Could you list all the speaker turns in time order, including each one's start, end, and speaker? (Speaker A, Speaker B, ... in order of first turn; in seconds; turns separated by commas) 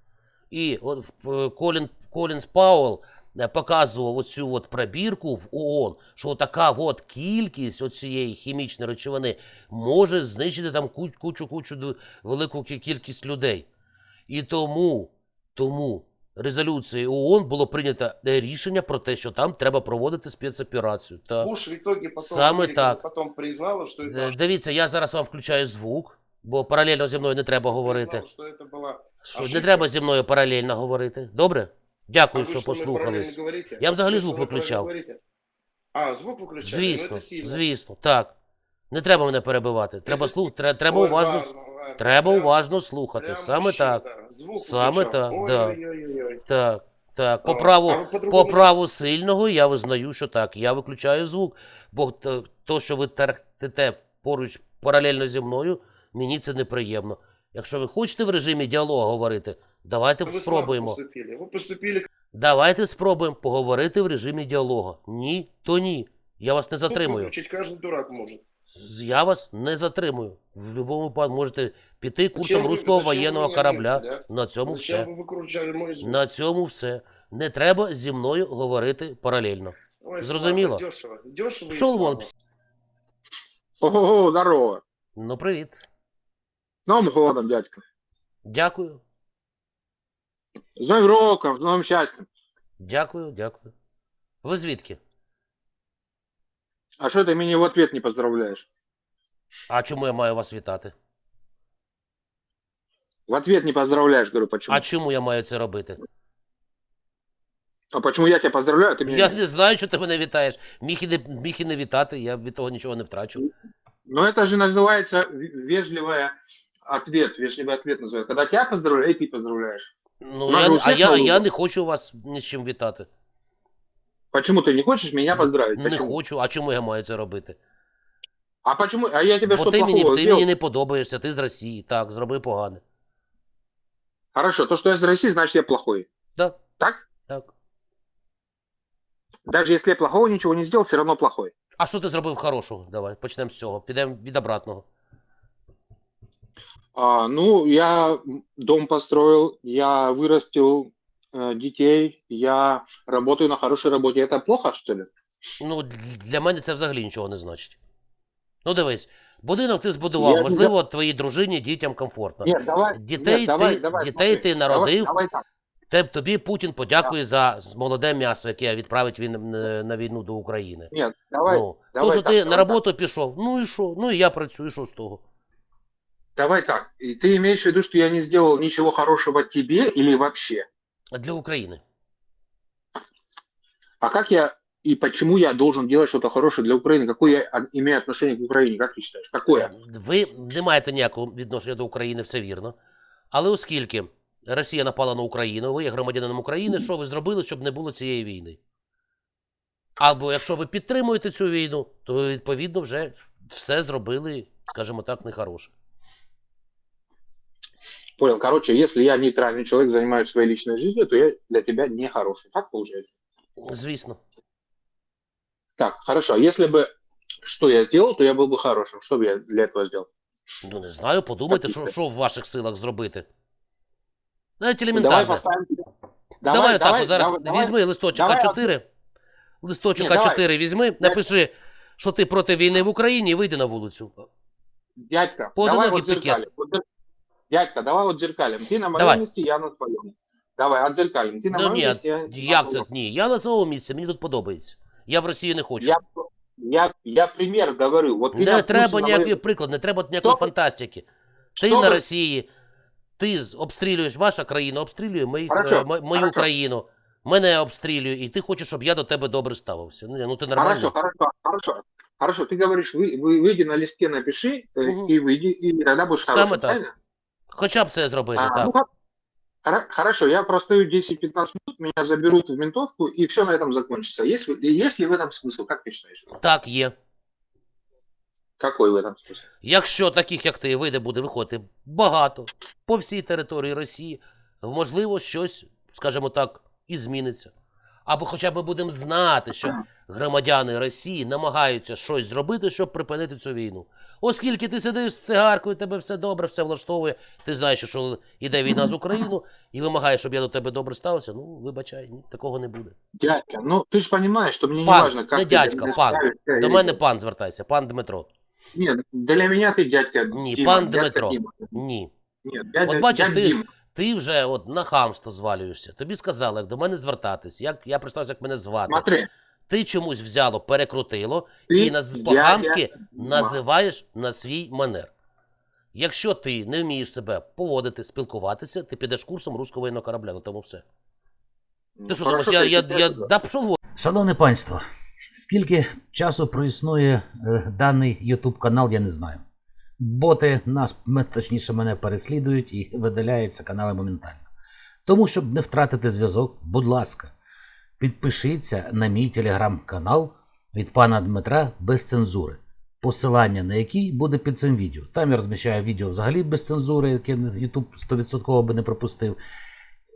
Speaker A: 0.5-13.7, Speaker A: 14.3-21.5, Speaker B: 21.4-24.4, Speaker A: 22.2-23.0, Speaker A: 24.0-28.3, Speaker B: 27.8-29.9, Speaker A: 29.2-34.9, Speaker B: 32.3-35.2, Speaker B: 36.0-37.6, Speaker A: 36.6-38.3, Speaker A: 38.9-44.0, Speaker B: 40.1-42.5, Speaker B: 43.2-46.4, Speaker A: 44.6-45.8, Speaker A: 46.5-61.0, Speaker B: 47.4-48.7, Speaker B: 60.3-62.1, Speaker A: 62.3-67.3, Speaker B: 66.9-68.4, Speaker A: 68.7-75.1, Speaker B: 72.3-76.2, Speaker A: 76.0-80.8, Speaker B: 80.0-82.3, Speaker A: 81.7-82.3, Speaker C: 83.8-84.8, Speaker A: 85.2-85.8, Speaker C: 86.9-87.8, Speaker A: 88.5-89.0, Speaker C: 90.8-92.3, Speaker A: 92.8-93.7, Speaker A: 94.4-95.0, Speaker C: 97.0-98.7, Speaker A: 99.7-100.9, Speaker C: 103.3-104.8, Speaker A: 104.7-106.0, Speaker C: 107.9-109.4, Speaker A: 109.1-113.5, Speaker C: 114.1-116.3, Speaker C: 116.9-119.9, Speaker A: 120.2-123.1, Speaker C: 120.5-121.5, Speaker C: 124.3-126.2, Speaker A: 125.3-127.6, Speaker C: 128.7-130.5, Speaker A: 129.5-132.8, Speaker C: 134.3-136.1, Speaker A: 136.4-136.6, Speaker C: 136.8-137.1, Speaker A: 137.3-137.5, Speaker C: 139.5-141.5, Speaker A: 141.8-144.8, Speaker C: 146.9-155.1, Speaker A: 155.6-157.8, Speaker A: 158.7-165.1, Speaker C: 160.2-160.7, Speaker C: 162.4-165.4, Speaker A: 165.9-170.9, Speaker C: 170.9-172.8, Speaker A: 171.5-175.2, Speaker C: 176.4-180.7, Speaker A: 181.1-181.8, Speaker C: 184.0-189.7, Speaker A: 189.5-192.8, Speaker A: 193.3-198.6, Speaker A: 200.0-205.7, Speaker C: 208.2-213.1, Speaker A: 213.6-214.2, Speaker C: 215.8-216.9, Speaker C: 217.4-220.1, Speaker A: 220.6-223.3, Speaker C: 221.5-221.8, Speaker A: 224.6-225.4, Speaker C: 224.9-225.8, Speaker C: 226.4-228.7, Speaker A: 226.5-228.8, Speaker A: 229.6-234.3, Speaker C: 229.9-230.4, Speaker C: 231.0-231.2, Speaker C: 235.0-236.8, Speaker A: 235.6-236.4, Speaker C: 237.5-242.8, Speaker A: 239.0-239.2, Speaker A: 241.5-245.9, Speaker C: 245.8-249.4, Speaker A: 248.3-251.1, Speaker C: 250.2-250.5, Speaker C: 251.6-252.0, Speaker A: 251.6-252.5, Speaker A: 253.2-260.9, Speaker C: 255.5-256.5, Speaker C: 260.6-266.9, Speaker A: 264.9-265.1, Speaker A: 266.2-266.8, Speaker A: 267.5-268.7, Speaker C: 268.4-268.9, Speaker C: 269.6-276.2, Speaker A: 276.4-276.9, Speaker C: 278.6-279.4, Speaker A: 279.6-287.5, Speaker A: 288.1-302.9, Speaker C: 303.2-307.0, Speaker A: 304.8-308.3, Speaker C: 308.7-311.8, Speaker A: 310.3-312.1, Speaker C: 312.4-313.7, Speaker A: 312.9-319.1, Speaker C: 318.9-319.3, Speaker A: 319.7-325.1, Speaker C: 321.7-323.6, Speaker A: 325.9-330.8, Speaker C: 332.0-333.3, Speaker A: 332.1-333.8, Speaker D: 334.0-334.8, Speaker D: 335.3-339.4, Speaker D: 340.0-344.4, Speaker D: 345.1-347.3, Speaker D: 348.0-359.4